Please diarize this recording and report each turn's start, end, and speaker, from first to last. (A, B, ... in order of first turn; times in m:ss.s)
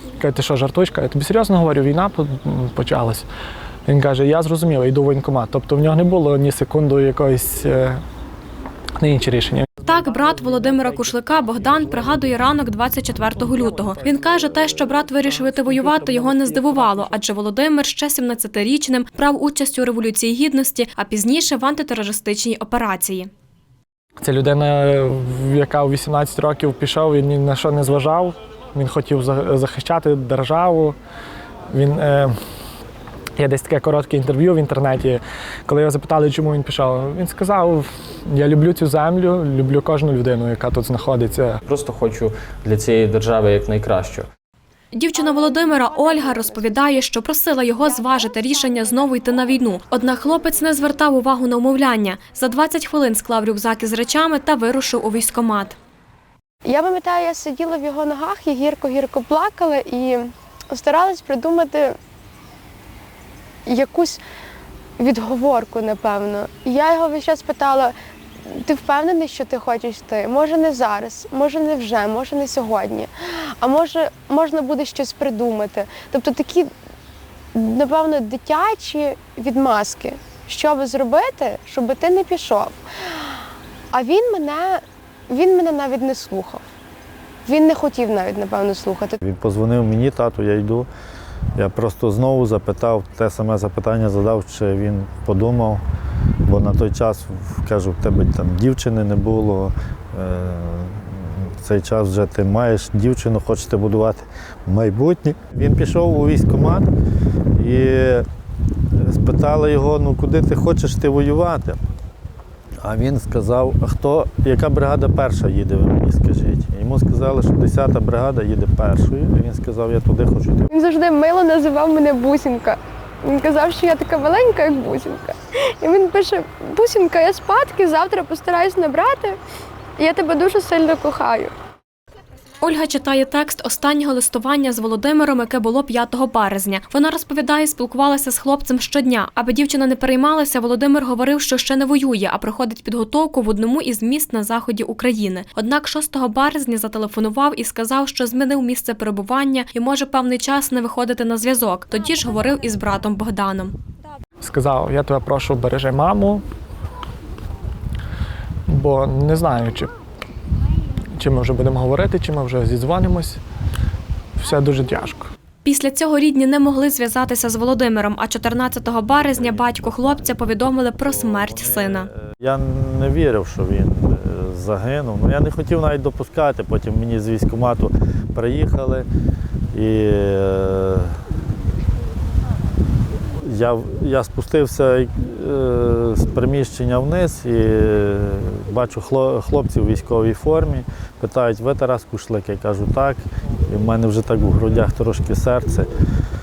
0:00.2-0:03.3 A
0:03.8-0:08.0 A
0:09.0-0:09.8 A
0:09.8-0:23.3 B
0:15.2-0:17.1 A
0:24.2-0:31.0 A
0:31.7-0:32.3 A
0:33.4-0:41.6 A
0:41.6-0:44.3 C
0:44.9-0:55.8 B
0:45.1-0:46.8 D
0:47.8-0:49.0 D
0:56.6-1:01.9 D
1:03.6-1:04.2 D
1:05.0-1:07.9 D
1:08.5-1:16.7 D
1:17.5-1:23.3 D
1:23.9-1:26.6 D
1:27.4-1:29.2 D
1:29.2-1:30.9 E
1:31.6-1:35.8 E
1:36.4-1:46.9 E
1:47.6-1:48.2 E
1:48.9-1:51.8 E
1:52.8-2:00.7 E
2:00.7-2:09.4 D
2:10.0-2:11.5 D
2:12.6-2:33.7 B
2:34.4-2:36.4 A
2:38.7-2:39.9 A
2:41.2-2:43.4 A
2:44.4-2:45.3 A
2:45.6-2:52.1 B
2:49.2-2:59.1 E
2:59.7-3:01.2 E
3:03.3-3:15.9 E